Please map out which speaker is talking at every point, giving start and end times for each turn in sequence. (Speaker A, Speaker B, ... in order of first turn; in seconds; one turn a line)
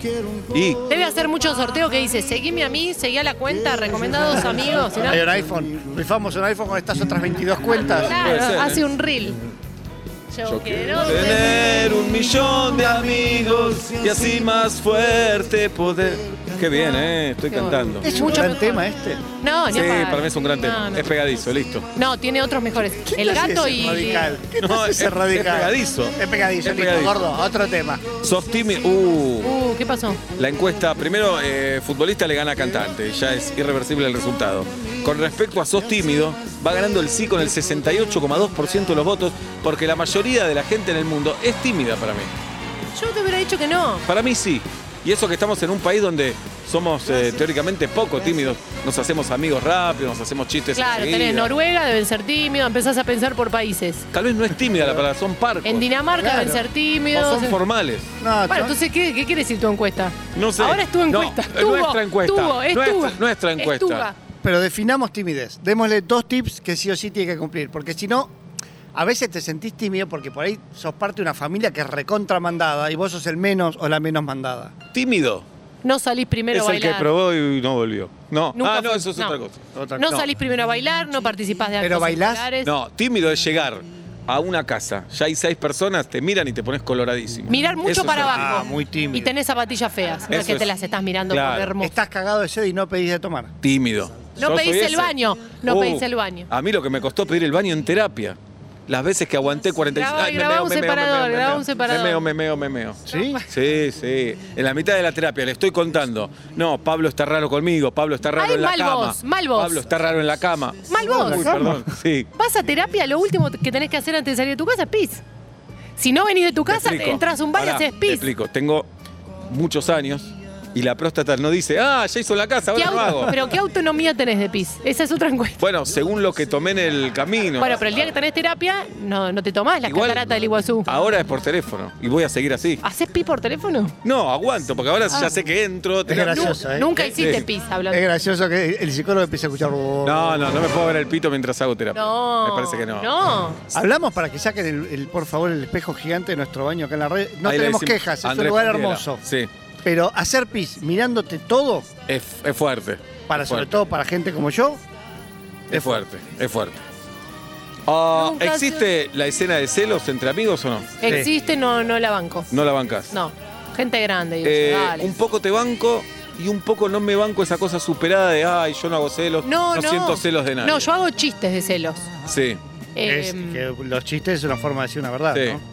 Speaker A: 0.5-0.8
Speaker B: 0.9-5.2
Speaker C: 5.0-8.2
Speaker B: 8.0-9.4
Speaker A: 8.1-8.8
Speaker B: 10.3-11.8
Speaker A: 10.5-18.3
Speaker B: 17.5-18.9
Speaker C: 18.0-19.2
Speaker B: 19.4-21.1
Speaker A: 19.7-21.9
Speaker B: 22.0-24.3
Speaker C: 23.1-28.1
Speaker A: 24.6-27.2
Speaker A: 28.2-29.6
Speaker B: 29.4-30.2
Speaker A: 30.4-42.3
Speaker B: 43.0-44.0
Speaker A: 44.1-51.5
Speaker B: 50.8-54.1
Speaker A: 54.1-55.9
Speaker B: 55.6-57.6
Speaker C: 56.2-56.6
Speaker A: 57.1-58.1
Speaker C: 58.2-58.8
Speaker B: 58.5-64.2
Speaker A: 60.4-64.1
Speaker C: 64.4-68.3
Speaker C: 68.9-74.7
Speaker A: 74.9-75.5
Speaker B: 75.8-77.1
Speaker A: 76.5-80.3
Speaker B: 78.6-79.4
Speaker C: 79.8-80.1
Speaker B: 80.0-82.7
Speaker C: 81.8-82.5
Speaker A: 82.6-88.6
Speaker B: 87.5-91.9
Speaker C: 88.1-89.3
Speaker A: 90.3-90.7
Speaker A: 91.3-91.8
Speaker C: 91.8-93.5
Speaker A: 93.6-112.3
Speaker B: 94.4-96.5
Speaker B: 99.9-102.2
Speaker C: 103.1-103.4
Speaker B: 108.4-109.8
Speaker B: 110.9-111.7
Speaker C: 111.0-111.8
Speaker B: 112.4-115.2
Speaker B: 116.0-118.2
Speaker A: 116.7-118.9
Speaker A: 119.5-123.4
Speaker B: 122.8-125.6
Speaker A: 125.6-128.1
Speaker B: 127.6-130.9
Speaker A: 129.8-130.3
Speaker A: 130.8-132.8
Speaker B: 132.8-133.9
Speaker A: 134.0-137.5
Speaker C: 136.1-137.0
Speaker B: 136.3-138.1
Speaker C: 137.9-140.5
Speaker A: 140.0-143.1
Speaker B: 141.9-143.6
Speaker C: 143.7-149.2
Speaker A: 147.4-149.5
Speaker C: 149.8-151.9
Speaker A: 152.1-153.8
Speaker C: 153.3-154.8
Speaker A: 155.7-156.8
Speaker C: 155.7-156.0
Speaker A: 157.9-161.2
Speaker B: 158.1-158.8
Speaker B: 161.0-162.5
Speaker A: 162.5-163.1
Speaker B: 163.1-165.1
Speaker A: 164.4-170.9
Speaker B: 169.4-172.1
Speaker A: 172.3-172.6
Speaker B: 173.0-173.6
Speaker C: 173.0-175.6
Speaker A: 175.3-175.6